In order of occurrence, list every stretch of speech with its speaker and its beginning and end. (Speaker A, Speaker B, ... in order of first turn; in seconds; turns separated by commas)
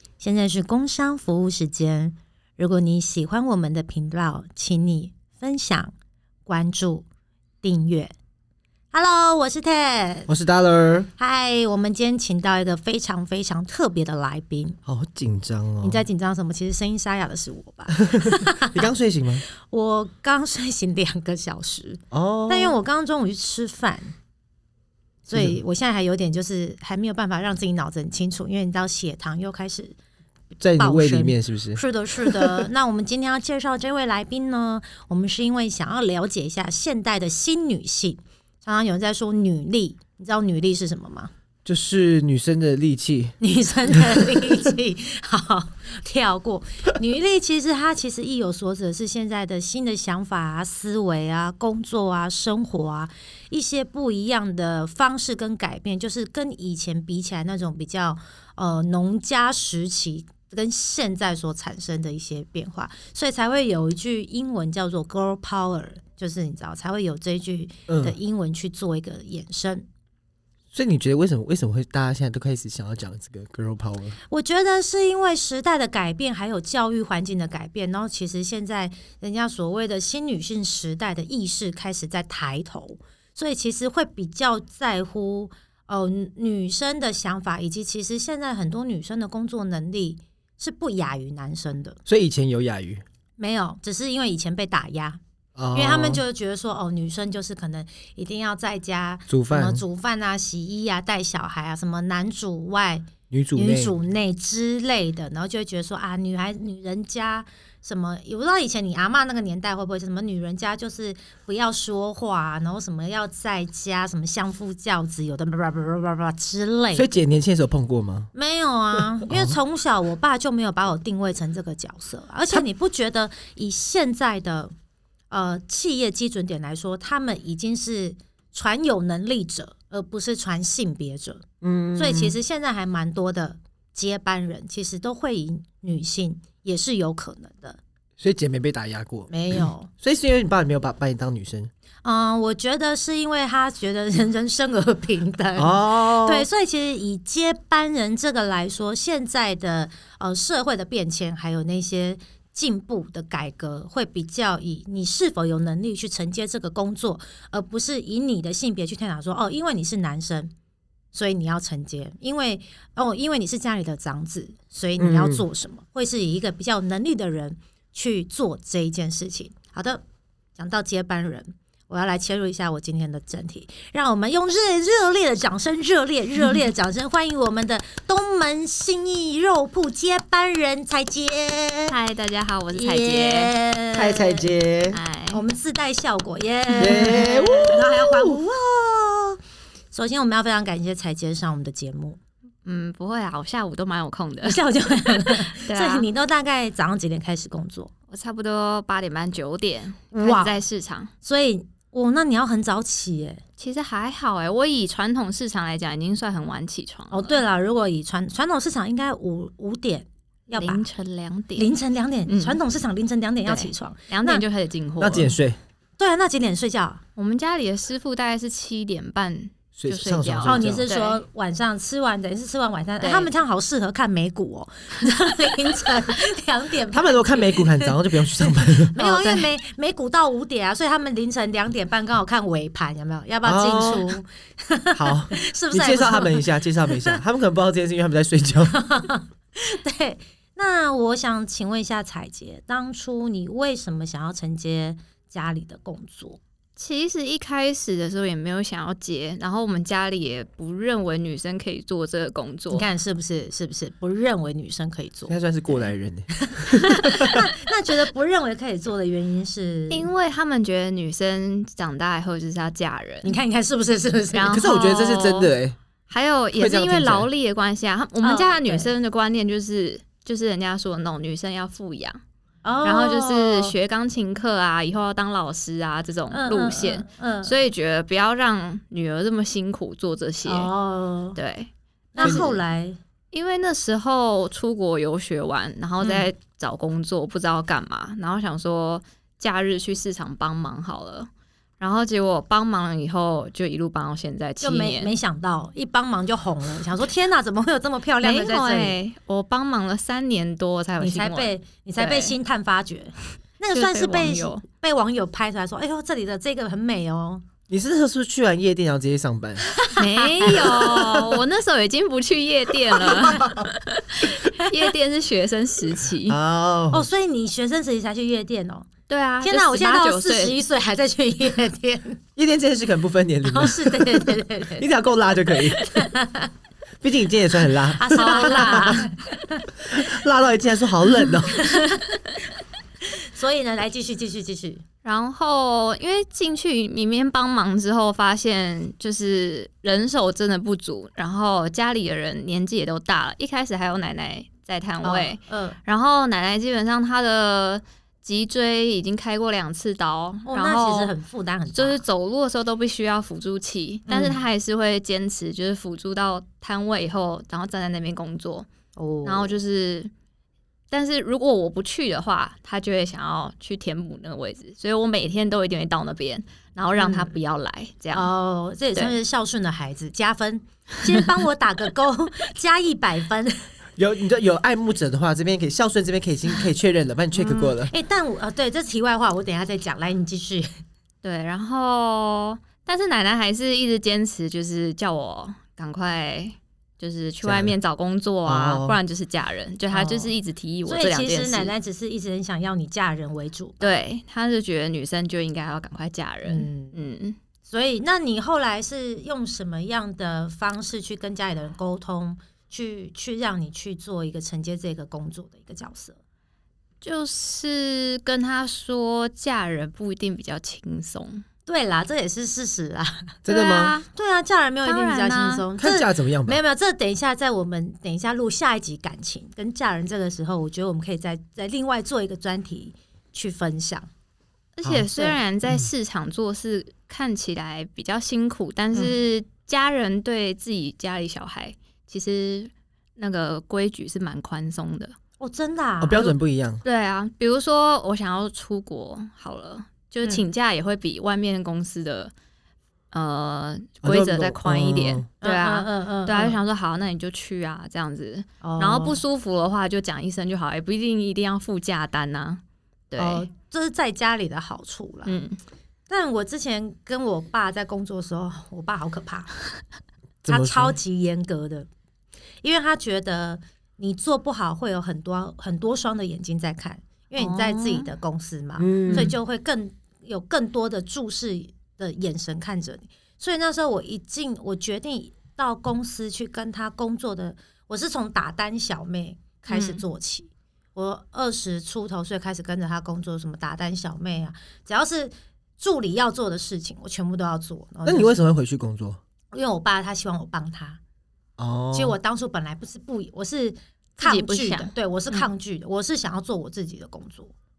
Speaker A: 0.2-5.9, Speaker A: 6.5-7.0, Speaker A: 7.6-8.1, Speaker A: 8.9-10.3, Speaker B: 10.3-11.1, Speaker A: 11.2-14.8, Speaker B: 14.8-16.0, Speaker A: 15.8-18.9, Speaker B: 18.1-19.4, Speaker A: 19.6-24.1, Speaker B: 22.1-22.8, Speaker A: 25.2-30.0, Speaker B: 25.3-25.6, Speaker B: 30.6-32.7, Speaker A: 30.8-41.3, Speaker B: 41.6-43.4, Speaker A: 43.4-69.9, Speaker B: 67.9-68.1, Speaker B: 70.7-74.2, Speaker A: 74.3-92.0, Speaker B: 92.1-93.0, Speaker A: 93.4-95.2, Speaker B: 95.5-96.2, Speaker A: 95.7-117.1, Speaker B: 99.3-99.8, Speaker B: 103.3-104.0, Speaker B: 116.9-118.3, Speaker A: 118.3-124.7, Speaker B: 119.2-119.5, Speaker A: 125.3-131.4, Speaker B: 131.6-132.3, Speaker A: 131.9-137.8, Speaker B: 138.2-141.7, Speaker A: 139.3-139.9, Speaker A: 142.0-160.5, Speaker B: 145.6-146.4, Speaker A: 161.1-170.0, Speaker B: 165.0-165.4, Speaker A: 170.6-181.9, Speaker C: 181.9-183.5, Speaker A: 182.7-184.5, Speaker B: 183.9-185.0, Speaker C: 184.9-185.4, Speaker A: 185.3-189.4, Speaker B: 186.8-188.4, Speaker C: 186.8-187.4, Speaker A: 189.9-192.2, Speaker C: 192.6-196.1, Speaker A: 194.4-197.9, Speaker C: 198.1-201.1, Speaker A: 200.1-200.6, Speaker A: 201.2-203.4, Speaker C: 203.6-207.4, Speaker A: 207.1-210.9, Speaker C: 210.5-211.7, Speaker A: 211.6-214.4, Speaker C: 212.3-212.6, Speaker C: 213.4-215.3, Speaker B: 215.0-215.6, Speaker A: 216.0-217.0, Speaker C: 217.2-221.2, Speaker B: 219.8-220.8, Speaker A: 220.4-227.8, Speaker C: 223.0-223.3, Speaker B: 226.9-228.9, Speaker C: 228.9-229.5, Speaker A: 228.9-237.2, Speaker B: 233.4-234.2, Speaker B: 234.9-238.8, Speaker A: 238.7-246.4, Speaker C: 246.8-252.8, Speaker A: 252.7-255.8, Speaker B: 255.3-257.5, Speaker A: 256.5-260.1, Speaker C: 259.9-263.3, Speaker A: 263.2-264.6, Speaker C: 264.3-265.5, Speaker B: 264.5-265.8, Speaker C: 266.1-272.2, Speaker B: 266.6-267.3, Speaker A: 268.2-268.9, Speaker A: 272.6-273.7, Speaker C: 272.8-280.7, Speaker A: 276.3-277.5, Speaker A: 280.4-281.4, Speaker C: 281.3-282.5, Speaker A: 282.1-283.0, Speaker C: 283.3-295.1, Speaker A: 286.0-286.3, Speaker A: 294.6-298.9, Speaker C: 298.2-302.3, Speaker A: 301.0-307.4, Speaker C: 303.7-304.6, Speaker B: 307.7-309.6, Speaker A: 309.8-310.7, Speaker C: 310.0-316.4, Speaker B: 310.6-311.4, Speaker B: 313.0-313.7, Speaker B: 316.2-317.1, Speaker A: 316.9-318.9, Speaker C: 319.1-320.6, Speaker A: 319.4-322.2, Speaker B: 322.4-325.8, Speaker A: 323.4-324.9, Speaker A: 325.8-326.5, Speaker B: 327.0-329.0, Speaker A: 327.9-329.7, Speaker C: 328.1-329.1, Speaker B: 329.9-331.8, Speaker A: 331.5-332.0, Speaker A: 333.1-334.8, Speaker C: 335.0-351.1, Speaker A: 345.0-345.8, Speaker A: 350.4-352.0, Speaker C: 351.7-358.7, Speaker A: 354.1-354.4, Speaker A: 358.9-359.6, Speaker C: 359.2-360.1, Speaker C: 360.9-368.3, Speaker A: 366.9-367.3, Speaker A: 368.1-373.6, Speaker B: 374.0-377.9, Speaker A: 377.3-380.7, Speaker C: 381.2-391.7, Speaker B: 387.4-387.7, Speaker B: 388.4-389.0, Speaker A: 389.9-390.3, Speaker A: 390.9-394.0, Speaker C: 393.8-397.4, Speaker A: 396.4-396.9, Speaker A: 397.7-406.2, Speaker C: 407.0-411.4, Speaker A: 411.7-413.4, Speaker B: 413.4-413.9, Speaker C: 413.5-414.1, Speaker A: 414.1-424.1, Speaker C: 414.8-415.6, Speaker B: 415.8-416.6, Speaker C: 424.8-435.1, Speaker A: 435.4-436.3, Speaker B: 436.0-436.8, Speaker C: 436.8-442.3, Speaker C: 443.1-453.4, Speaker B: 444.0-445.2, Speaker A: 445.4-446.6, Speaker A: 448.6-449.2, Speaker A: 453.2-455.4, Speaker C: 455.2-455.6, Speaker A: 456.1-459.5, Speaker B: 460.4-460.9, Speaker A: 460.4-461.9, Speaker A: 462.6-488.3, Speaker C: 467.4-468.1, Speaker B: 468.8-469.3, Speaker C: 479.7-480.0, Speaker B: 488.0-489.2, Speaker A: 489.5-491.0, Speaker B: 491.6-492.1, Speaker A: 491.9-497.5, Speaker C: 494.2-495.5